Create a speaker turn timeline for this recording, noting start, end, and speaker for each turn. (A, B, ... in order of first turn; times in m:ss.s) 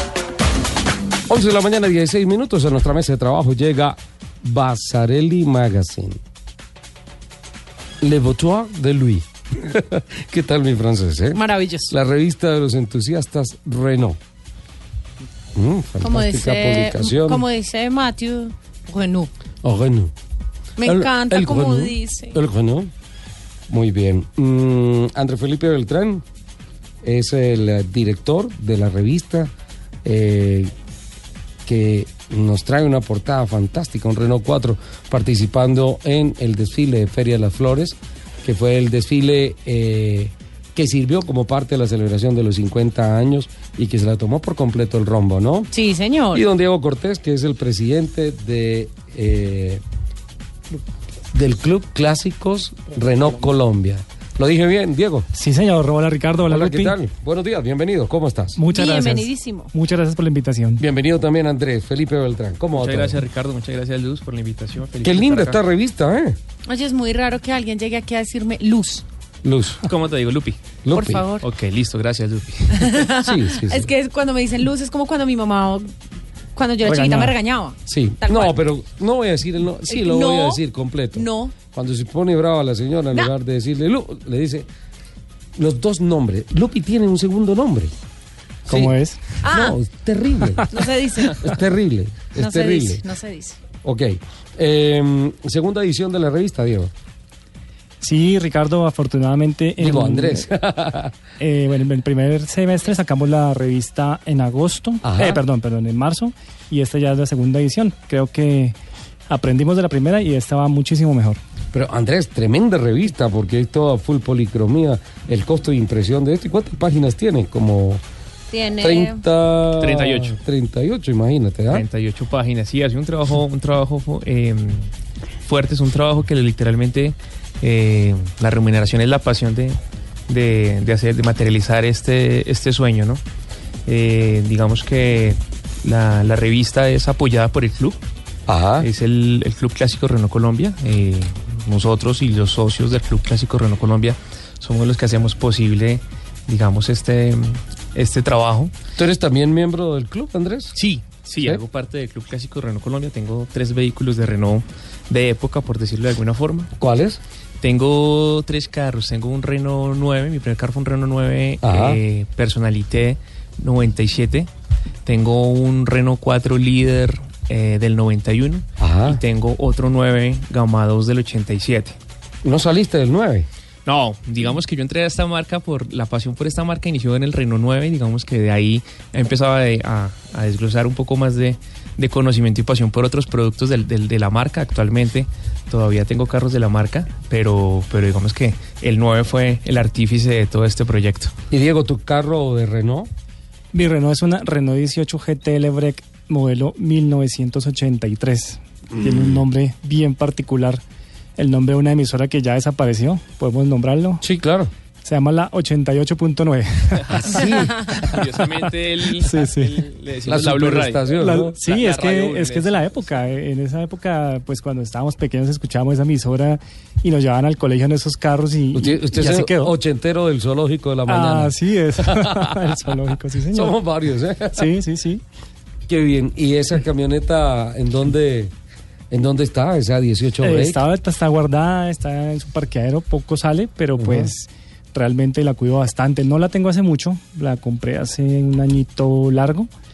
0:01.3-0:06.2 A
0:08.0-0:14.2 A
0:11.3-0:11.9 B
0:15.5-0:17.4 A
0:16.0-0:19.3 B
0:19.6-0:20.1 A
0:20.8-0:22.4 B
0:20.8-0:22.9 A
0:23.7-0:26.2 A
0:27.0-0:29.5 A
0:30.0-0:30.7 A
0:31.6-0:45.7 A
0:45.7-0:46.4 B
0:46.3-0:49.8 A
0:51.3-0:55.3 A
0:55.3-0:57.0 C
0:56.5-0:58.6 A
0:58.5-1:00.8 C
0:58.7-0:59.7 B
1:00.8-1:03.2 A
1:02.7-1:05.6 D
1:05.0-1:06.4 A
1:06.6-1:09.0 B
1:09.4-1:09.8 A
1:09.8-1:10.6 D
1:10.8-1:11.3 A
1:10.9-1:11.4 B
1:11.4-1:13.0 D
1:12.7-1:15.9 B
1:13.2-1:13.9 A
1:16.5-1:18.6 B
1:16.8-1:17.3 C
1:17.9-1:24.7 A
1:19.9-1:20.6 B
1:21.1-1:21.5 B
1:25.6-1:27.9 A
1:28.6-1:30.7 A
1:28.7-1:29.2 C
1:29.4-1:29.8 B
1:30.7-1:31.5 B
1:31.3-1:33.0 A
1:32.4-1:33.6 B
1:33.8-1:36.9 A
1:38.0-1:40.5 C
1:39.8-1:41.1 A
1:41.4-1:48.8 C
1:45.0-1:45.4 A
1:49.3-1:51.4 C
1:51.7-1:58.0 A
1:58.5-1:59.2 B
1:58.8-2:01.8 A
1:59.8-2:00.4 D
2:01.7-2:04.9 D
2:05.4-2:13.2 D
2:13.8-2:18.0 D
2:18.5-2:18.9 A
2:18.8-2:28.7 D
2:29.0-2:30.8 A
2:30.7-2:36.7 D
2:31.4-2:31.6 A
2:36.8-2:37.2 A
2:37.6-2:44.5 D
2:41.6-2:42.0 A
2:45.0-2:52.0 D
2:48.8-2:49.2 A
2:52.4-2:53.5 A
2:53.8-3:11.3 D
3:11.5-3:13.1 A
3:13.7-3:20.8 C
3:18.9-3:19.4 A
3:21.4-3:24.2 C
3:24.2-3:24.7 A
3:25.0-3:27.9 C
3:27.0-3:33.0 D
3:27.2-3:28.1 A
3:29.1-3:29.8 C
3:30.2-3:31.6 A
3:31.2-3:39.8 C
3:38.7-3:42.9 A
3:41.0-3:43.8 C
3:43.5-3:44.7 A
3:44.5-3:45.2 C
3:45.9-3:48.5 A
3:49.1-3:50.8 A
3:50.4-3:59.7 C
3:54.0-3:54.3 A